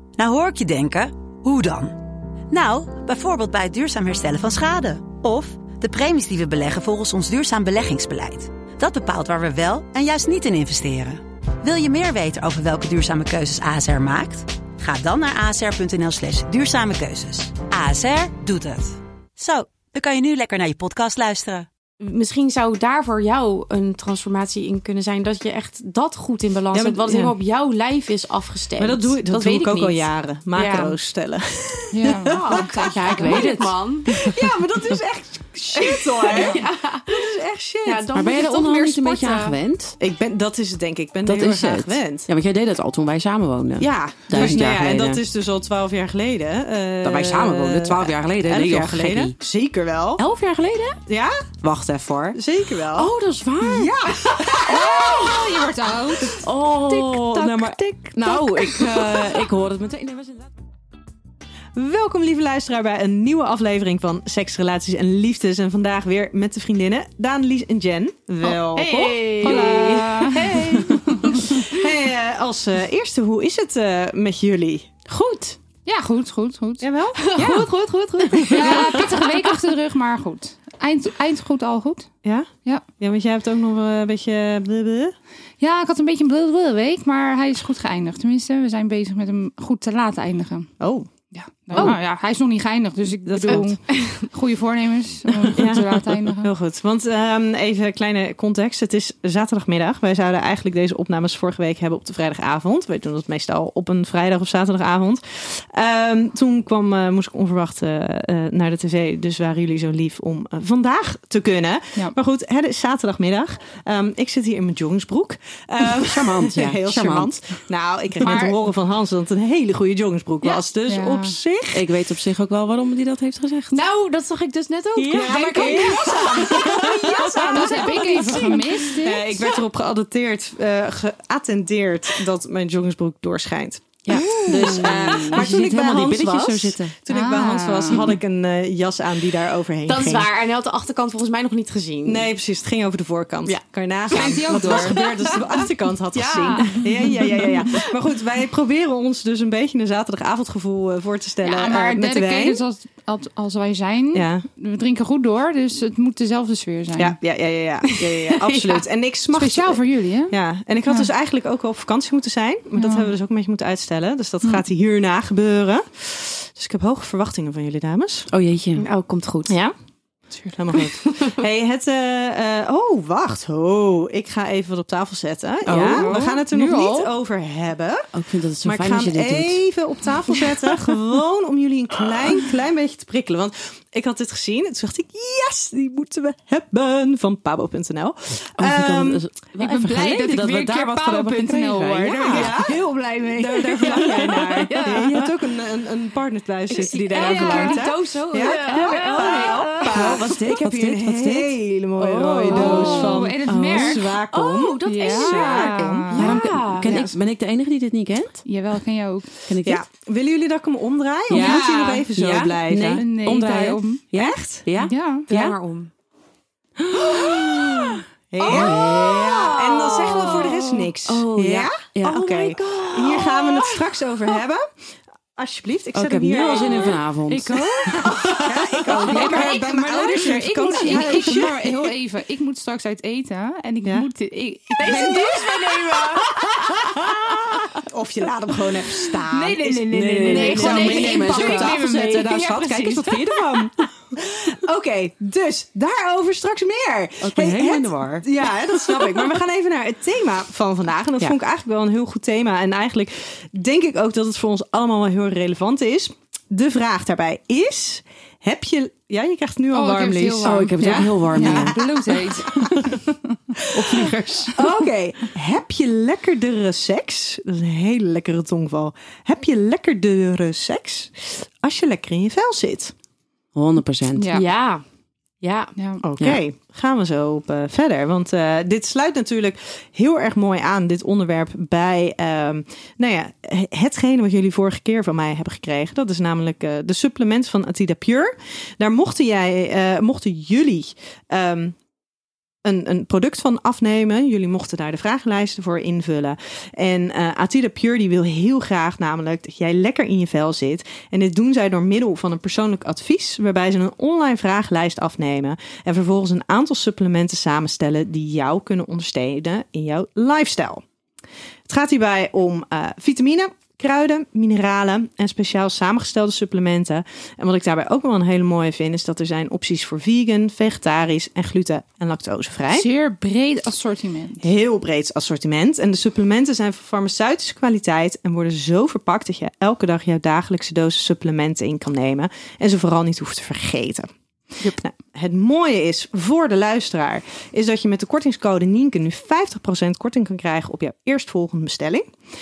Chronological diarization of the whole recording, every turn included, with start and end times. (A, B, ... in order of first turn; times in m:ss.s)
0:00.2-0:02.0 A
0:02.5-0:21.7 A
0:22.0-0:31.0 B
0:26.7-0:27.3 C
0:28.8-0:33.4 C
0:31.9-0:33.4 D
0:32.2-0:34.2 B
0:32.9-0:34.5 E
0:34.1-0:38.1 C
0:35.7-0:37.3 B
0:36.3-0:36.6 D
0:37.8-0:39.6 B
0:38.1-0:40.0 E
0:40.0-0:42.3 C
0:41.2-0:45.2 E
0:43.8-0:50.2 C
0:47.0-0:49.4 E
0:50.2-0:51.0 E
0:51.1-0:51.5 C
0:51.6-0:53.9 E
0:52.3-0:55.6 C
0:54.6-0:56.5 D
0:56.2-1:00.5 E
0:57.4-0:59.4 C
1:01.7-1:14.9 C
1:08.4-1:11.4 B
1:09.5-1:10.5 D
1:15.1-1:15.6 E
1:15.8-1:16.9 D
1:16.8-1:19.1 C
1:17.2-1:19.4 B
1:18.5-1:22.1 D
1:22.2-1:25.1 C
1:25.6-1:30.7 D
1:30.8-1:31.1 C
1:31.3-1:36.5 D
1:31.7-1:32.0 C
1:33.2-1:33.8 C
1:35.5-2:01.8 C
1:55.8-1:57.6 E
1:58.2-1:58.5 D
2:00.9-2:01.3 D
2:01.7-2:03.8 E
2:03.7-2:08.6 B
2:05.0-2:08.6 E
2:05.1-2:20.3 C
2:05.2-2:06.5 D
2:07.4-2:09.3 D
2:14.1-2:16.9 E
2:14.1-2:14.9 B
2:17.1-2:18.1 D
2:19.9-2:22.3 B
2:22.0-2:32.6 C
2:23.4-2:25.4 B
2:24.1-2:25.0 D
2:26.1-2:27.8 B
2:31.4-2:37.2 D
2:34.1-2:34.4 C
2:37.0-2:48.3 C
2:37.8-2:38.8 B
2:39.3-2:40.3 D
2:42.8-2:43.1 D
2:48.3-2:48.8 E
2:48.8-2:49.6 B
2:49.5-2:49.7 C
2:50.3-2:58.1 C
2:51.0-2:51.4 B
2:55.6-2:56.2 E
2:55.8-2:56.2 B
2:55.9-2:57.1 D
2:58.1-2:59.6 E
2:58.6-3:09.2 C
3:08.6-3:12.8 E
3:09.6-3:13.0 D
3:12.2-3:12.8 C
3:13.3-3:15.3 E
3:13.3-3:26.2 C
3:13.8-3:14.7 D
3:16.7-3:20.3 B
3:17.1-3:17.8 D
3:18.7-3:23.2 E
3:18.7-3:19.2 D
3:22.5-3:24.0 D
3:22.5-3:23.2 B
3:23.8-3:27.0 B
3:24.8-3:27.1 D
3:26.1-3:28.4 E
3:28.4-3:29.4 D
3:29.4-3:29.8 E
3:29.6-3:33.0 C
3:31.3-3:35.6 E
3:31.3-3:31.6 D
3:32.9-3:34.0 D
3:34.1-3:34.6 C
3:34.8-3:35.2 D
3:35.3-3:35.9 B
3:36.8-3:43.6 E
3:38.3-3:44.6 C
3:38.4-3:39.0 B
3:40.0-3:40.5 B
3:43.1-3:43.6 B
3:45.4-3:47.0 C
3:45.9-3:49.0 E
3:47.3-3:49.5 B
3:48.3-3:51.9 C
3:48.9-3:56.0 D
3:50.7-3:51.4 B
3:54.8-3:56.4 B
3:54.8-3:55.4 C
3:56.4-4:23.0 C
3:59.6-4:02.0 E
4:00.3-4:02.3 B
4:00.3-4:03.2 D
4:02.7-4:03.1 E
4:07.2-4:08.2 E
4:19.7-4:24.5 D
4:20.4-4:21.8 E
4:23.6-4:23.9 C
4:23.9-4:24.5 E
4:24.5-4:32.9 C
4:33.5-4:34.4 E
4:34.1-4:34.4 D
4:34.3-4:34.8 B
4:35.4-4:35.7 B
4:35.8-4:36.0 D
4:36.0-4:51.8 C
4:52.6-5:10.8 C
5:11.7-5:22.9 C
5:22.7-5:24.5 D
5:24.4-5:34.1 C
5:34.6-5:42.1 C